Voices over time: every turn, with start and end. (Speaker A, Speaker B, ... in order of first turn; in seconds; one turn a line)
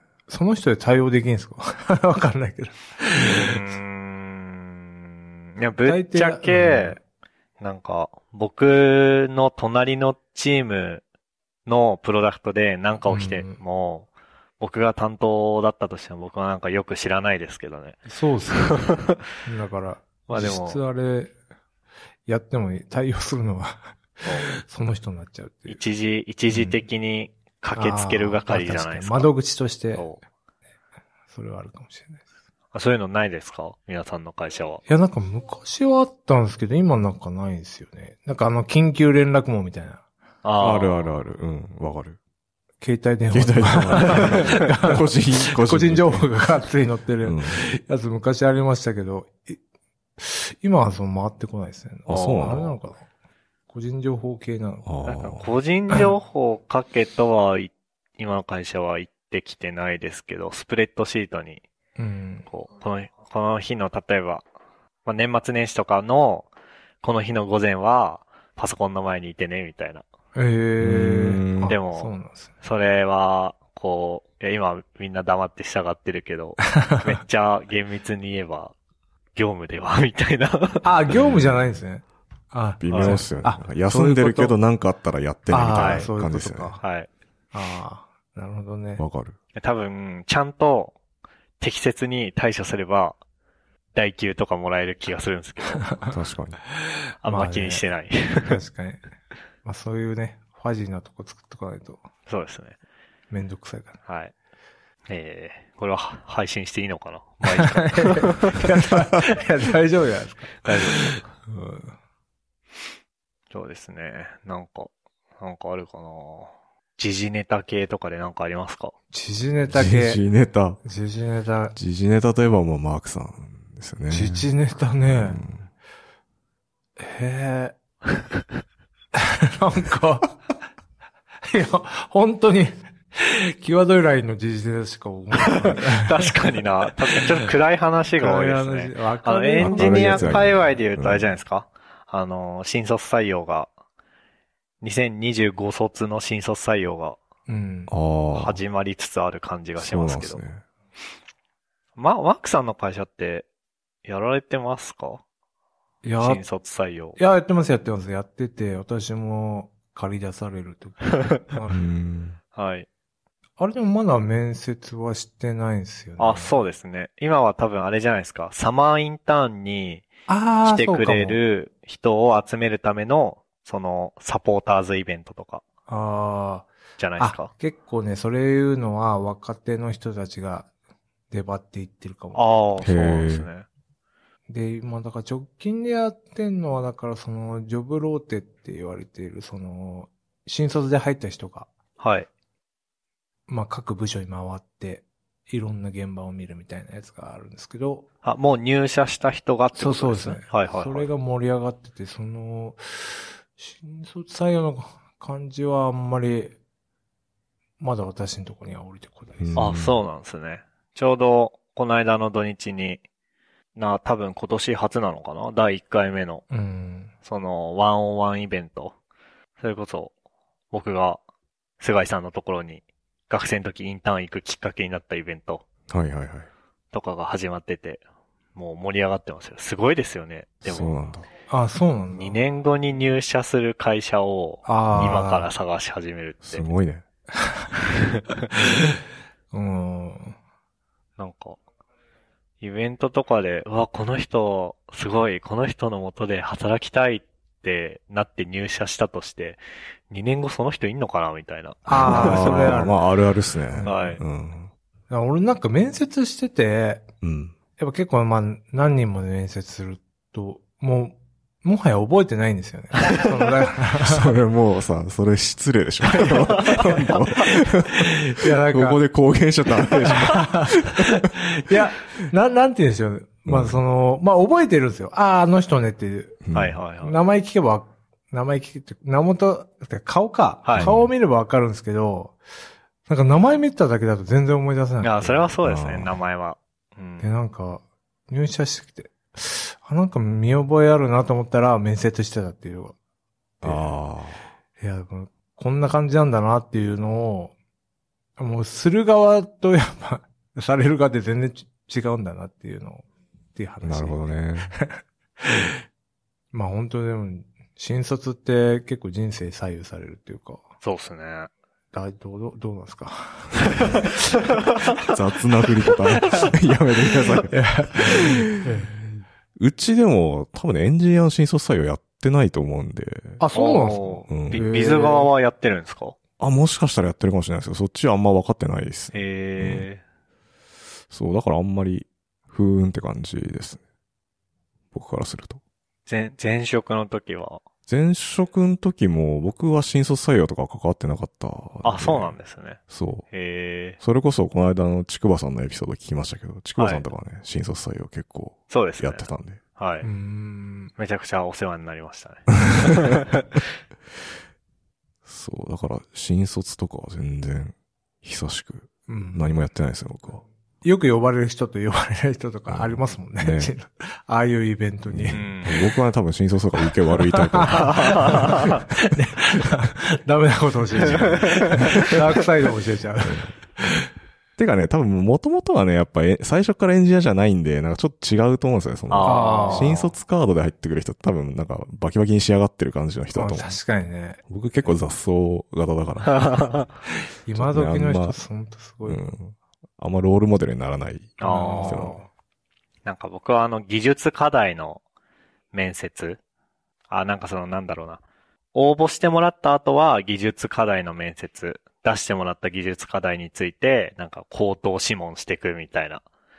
Speaker A: 0.3-3.6
Speaker B: 3.1-7.0
Speaker A: 5.8-7.0
Speaker B: 7.6-11.0
Speaker B: 11.7-14.1
Speaker A: 13.1-13.6
Speaker B: 14.6-18.0
Speaker A: 18.1-21.3
Speaker B: 18.5-19.2
Speaker B: 20.3-20.8
Speaker A: 22.3-25.8
Speaker B: 24.2-24.5
Speaker B: 25.7-29.3
Speaker A: 26.5-26.8
Speaker A: 27.7-30.1
Speaker B: 29.9-30.2
Speaker A: 31.3-32.2
Speaker B: 32.7-34.8
Speaker A: 34.9-40.0
Speaker B: 40.4-41.1
Speaker C: 40.6-42.2
Speaker A: 42.8-49.6
Speaker C: 43.3-46.3
Speaker B: 44.2-44.6
Speaker C: 47.2-47.6
Speaker A: 50.2-53.0
Speaker C: 52.1-52.8
Speaker B: 52.1-52.7
Speaker A: 53.7-54.9
Speaker C: 54.9-55.5
Speaker B: 55.0-61.6
Speaker A: 62.0-62.5
Speaker B: 62.5-64.4
Speaker B: 65.0-66.5
Speaker B: 67.0-70.0
Speaker A: 70.3-72.5
Speaker C: 70.8-71.7
Speaker B: 71.7-78.7
Speaker A: 76.7-77.1
Speaker B: 79.3-80.9
Speaker A: 80.8-84.5
Speaker C: 81.1-81.5
Speaker C: 82.8-86.8
Speaker B: 82.9-83.2
Speaker A: 85.5-86.8
Speaker B: 85.7-86.1
Speaker B: 86.8-87.1
Speaker A: 87.5-89.0
Speaker C: 89.0-89.3
Speaker B: 89.5-90.9
Speaker B: 91.6-93.2
Speaker B: 93.9-95.9
Speaker A: 95.8-96.1
Speaker C: 96.1-96.6
Speaker B: 97.2-98.6
Speaker A: 97.2-97.8
Speaker A: 98.4-99.0
Speaker A: 99.6-102.0
Speaker B: 102.3-102.8
Speaker A: 103.3-104.0
Speaker B: 104.0-104.3
Speaker B: 105.1-108.7
Speaker A: 107.5-111.9
Speaker B: 110.6-111.3
Speaker B: 113.5-118.9
Speaker A: 119.1-120.2
Speaker C: 119.7-120.8
Speaker A: 120.8-121.8
Speaker C: 121.7-124.5
Speaker A: 124.1-125.4
Speaker C: 125.0-125.7
Speaker A: 127.0-127.7
Speaker A: 129.1-130.4
Speaker A: 131.5-136.3
Speaker B: 135.6-143.7
Speaker A: 138.2-140.6
Speaker C: 139.6-141.3
Speaker B: 144.8-147.2
Speaker A: 147.5-147.9
Speaker C: 147.9-148.6
Speaker B: 148.3-150.4
Speaker C: 149.8-150.6
Speaker B: 151.9-153.5
Speaker B: 154.0-155.2
Speaker A: 156.0-156.4
Speaker B: 156.2-157.2
Speaker A: 157.2-161.8
Speaker C: 161.7-162.4
Speaker B: 162.5-162.9
Speaker A: 163.6-166.6
Speaker B: 166.2-170.1
Speaker A: 170.3-171.4
Speaker B: 170.6-175.6
Speaker A: 175.9-180.7
Speaker B: 177.0-177.5
Speaker A: 181.3-182.4
Speaker B: 182.3-183.7
Speaker C: 182.8-183.5
Speaker A: 184.5-191.7
Speaker B: 192.0-192.3
Speaker A: 193.5-198.1
Speaker B: 198.2-201.1
Speaker A: 199.8-206.6
Speaker A: 207.8-209.7
Speaker C: 209.4-209.9
Speaker B: 209.6-213.0
Speaker B: 213.7-216.4
Speaker A: 216.5-217.1
Speaker B: 217.2-218.9
Speaker B: 219.6-220.1
Speaker B: 220.7-221.2
Speaker B: 221.8-225.6
Speaker C: 225.9-226.5
Speaker B: 226.9-228.0
Speaker B: 228.5-230.9
Speaker C: 230.6-231.3
Speaker A: 231.5-232.4
Speaker B: 232.1-236.7
Speaker A: 234.7-235.5
Speaker C: 234.9-235.2
Speaker C: 236.4-237.0
Speaker A: 237.4-237.7
Speaker B: 237.9-238.5
Speaker A: 239.5-240.3
Speaker B: 241.2-241.6
Speaker B: 242.6-252.9
Speaker A: 251.9-253.0
Speaker C: 251.9-254.7
Speaker A: 253.7-254.2
Speaker B: 253.8-254.2
Speaker A: 255.1-257.1
Speaker C: 257.2-257.5
Speaker A: 257.8-264.3
Speaker C: 264.0-271.2
Speaker A: 266.1-267.0
Speaker A: 268.2-269.0
Speaker A: 270.1-276.4
Speaker C: 273.5-273.8
Speaker C: 276.4-276.8
Speaker B: 276.5-277.2
Speaker A: 277.0-282.4
Speaker B: 280.6-280.9
Speaker C: 280.8-281.1
Speaker A: 283.1-285.5
Speaker B: 285.0-287.3
Speaker C: 285.6-286.1
Speaker A: 287.2-292.9
Speaker A: 293.6-293.9
Speaker C: 293.6-294.4
Speaker A: 294.8-297.5
Speaker A: 298.4-305.7
Speaker C: 303.8-304.8
Speaker A: 306.5-310.6
Speaker B: 310.8-311.5
Speaker A: 311.9-314.1
Speaker C: 315.1-318.5
Speaker A: 317.5-319.0
Speaker C: 319.6-323.4
Speaker A: 323.4-325.3
Speaker B: 323.5-326.1
Speaker C: 324.3-324.6
Speaker C: 326.4-329.9
Speaker B: 329.1-330.0
Speaker C: 331.1-333.8
Speaker C: 334.9-335.6
Speaker B: 336.1-337.6
Speaker C: 337.9-343.2
Speaker B: 341.8-344.0
Speaker C: 344.0-349.6
Speaker B: 346.8-347.0
Speaker B: 348.7-350.1
Speaker A: 350.0-350.9
Speaker B: 351.0-353.4
Speaker C: 355.2-360.4
Speaker A: 359.1-359.5
Speaker A: 360.8-365.8
Speaker C: 362.7-363.7
Speaker C: 365.1-368.5
Speaker B: 365.3-365.8
Speaker A: 367.2-374.1
Speaker B: 367.7-368.8
Speaker B: 371.2-372.1
Speaker C: 373.2-373.6
Speaker C: 374.6-383.8
Speaker B: 379.1-380.0
Speaker A: 379.2-380.1
Speaker A: 383.3-384.4
Speaker C: 384.5-386.5
Speaker B: 386.2-386.9
Speaker A: 387.4-389.2
Speaker C: 387.5-388.4
Speaker C: 389.0-392.2
Speaker B: 391.4-392.2
Speaker A: 391.4-392.3
Speaker B: 393.0-395.0
Speaker B: 395.7-396.4
Speaker B: 397.1-398.2
Speaker B: 398.7-406.2